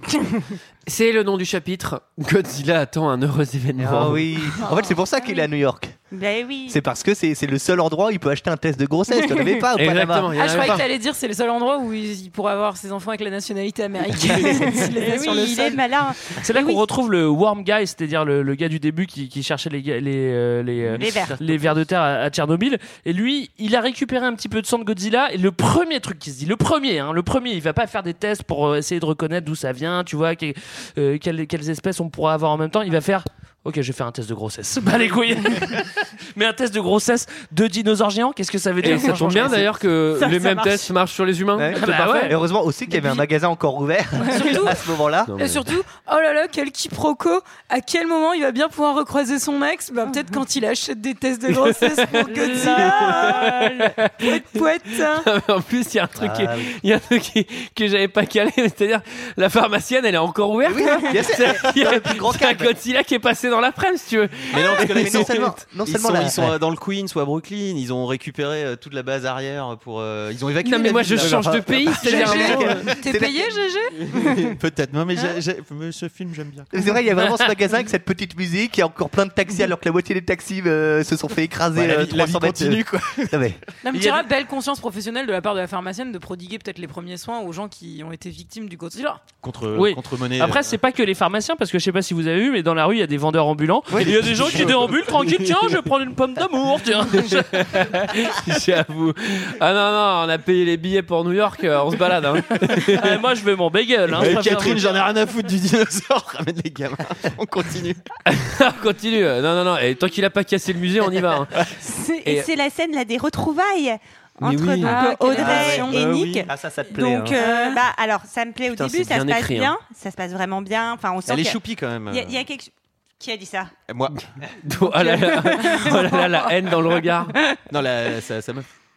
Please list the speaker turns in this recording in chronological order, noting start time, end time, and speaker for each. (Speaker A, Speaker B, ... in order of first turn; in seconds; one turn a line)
Speaker A: 0.9-4.3
Speaker B: 3.8-5.9
Speaker C: 4.6-5.0
Speaker D: 6.1-6.8
Speaker B: 6.7-10.3
Speaker D: 9.2-9.5
Speaker A: 9.7-10.8
Speaker C: 10.3-15.8
Speaker D: 14.9-16.8
Speaker E: 16.4-39.8
Speaker D: 21.0-21.4
Speaker A: 38.8-42.3
Speaker C: 40.2-40.9
Speaker B: 41.5-45.3
Speaker E: 41.7-42.4
Speaker C: 42.9-43.2
Speaker C: 44.2-55.3
Speaker A: 45.3-45.7
Speaker A: 51.5-65.5
Speaker B: 56.1-56.8
Speaker B: 60.6-62.7
Speaker F: 64.5-71.6
Speaker B: 64.7-66.5
Speaker A: 70.6-72.8
Speaker B: 71.1-73.5
Speaker C: 71.9-74.5
Speaker F: 74.5-76.7
Speaker B: 76.7-83.6
Speaker F: 81.7-83.3
Speaker C: 83.8-89.2
Speaker F: 89.4-90.8
Speaker E: 89.7-97.8
Speaker B: 93.9-94.8
Speaker A: 97.2-103.2
Speaker E: 102.7-104.9
Speaker F: 104.1-108.0
Speaker A: 108.2-111.7
Speaker D: 111.8-123.7
Speaker A: 114.4-114.9
Speaker C: 114.8-116.0
Speaker B: 115.4-117.4
Speaker F: 115.4-116.4
Speaker C: 117.3-117.8
Speaker A: 118.7-119.7
Speaker F: 121.3-122.4
Speaker F: 123.9-124.2
Speaker A: 124.6-127.3
Speaker D: 125.0-126.0
Speaker C: 125.1-126.5
Speaker F: 127.7-128.7